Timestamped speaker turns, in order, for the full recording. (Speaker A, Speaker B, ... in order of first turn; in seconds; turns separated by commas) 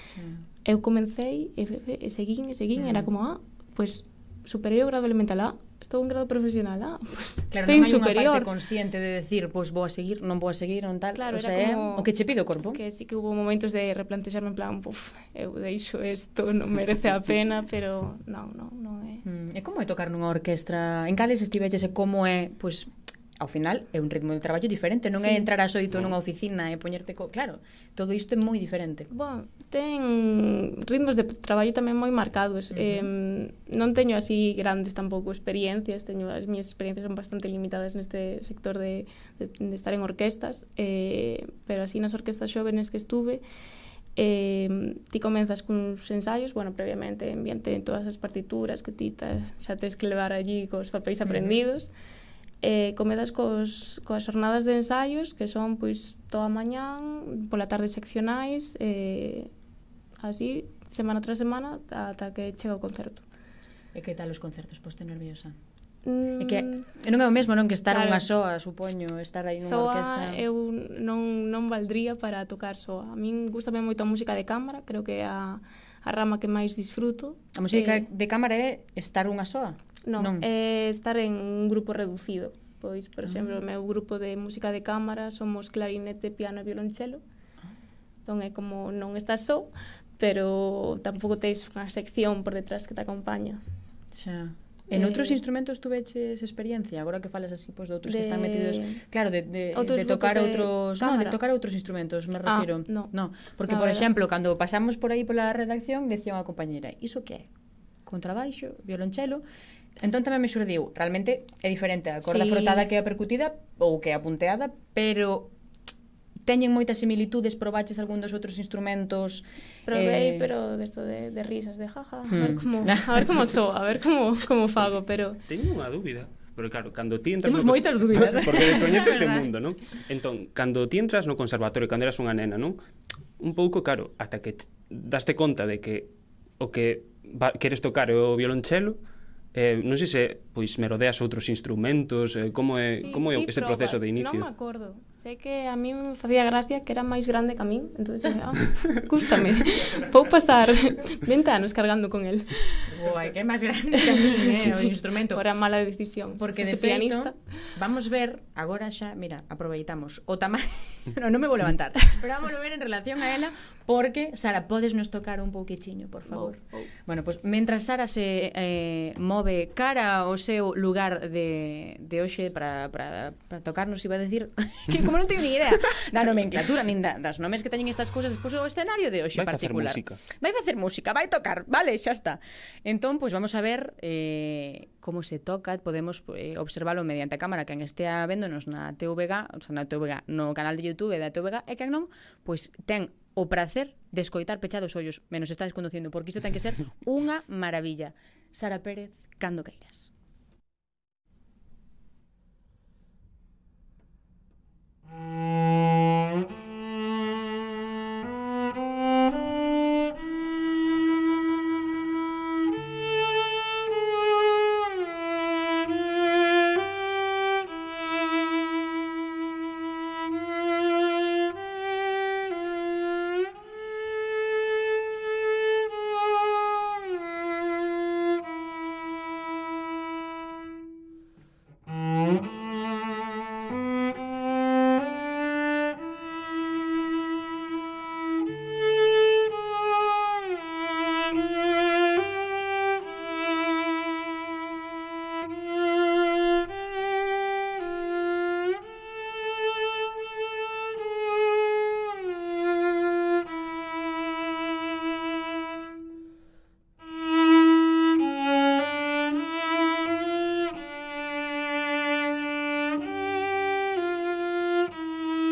Speaker A: 0.1-0.4, Speaker B: 0.6-8.5, Speaker A: 2.8-3.1, Speaker A: 7.5-12.8, Speaker B: 11.1-12.1, Speaker B: 12.7-19.2, Speaker A: 19.2-29.1, Speaker B: 25.2-25.5, Speaker B: 29.1-43.4, Speaker A: 32.7-33.1, Speaker B: 44.1-51.9, Speaker A: 51.2-51.6, Speaker B: 52.6-59.5, Speaker B: 60.2-63.2, Speaker A: 63.9-65.5, Speaker B: 66.0-66.9, Speaker A: 66.4-70.4, Speaker B: 67.9-68.2, Speaker B: 69.6-78.0, Speaker A: 77.5-80.5, Speaker B: 80.0-87.2, Speaker A: 83.2-83.6, Speaker B: 88.2-93.6, Speaker A: 94.1-107.5, Speaker B: 94.9-95.4, Speaker B: 98.1-99.0, Speaker B: 99.7-101.4, Speaker B: 102.5-103.1, Speaker B: 103.7-104.1, Speaker A: 108.0-109.4, Speaker A: 110.0-115.5, Speaker B: 112.2-112.9, Speaker A: 116.5-120.5, Speaker B: 119.9-125.4, Speaker A: 122.3-123.3, Speaker C: 125.5-132.8, Speaker A: 127.4-129.5, Speaker C: 133.4-139.0, Speaker C: 139.5-144.5, Speaker B: 142.9-152.9, Speaker A: 152.9-155.4, Speaker B: 154.2-157.4, Speaker A: 156.4-200.1, Speaker B: 166.2-166.9, Speaker C: 179.3-180.2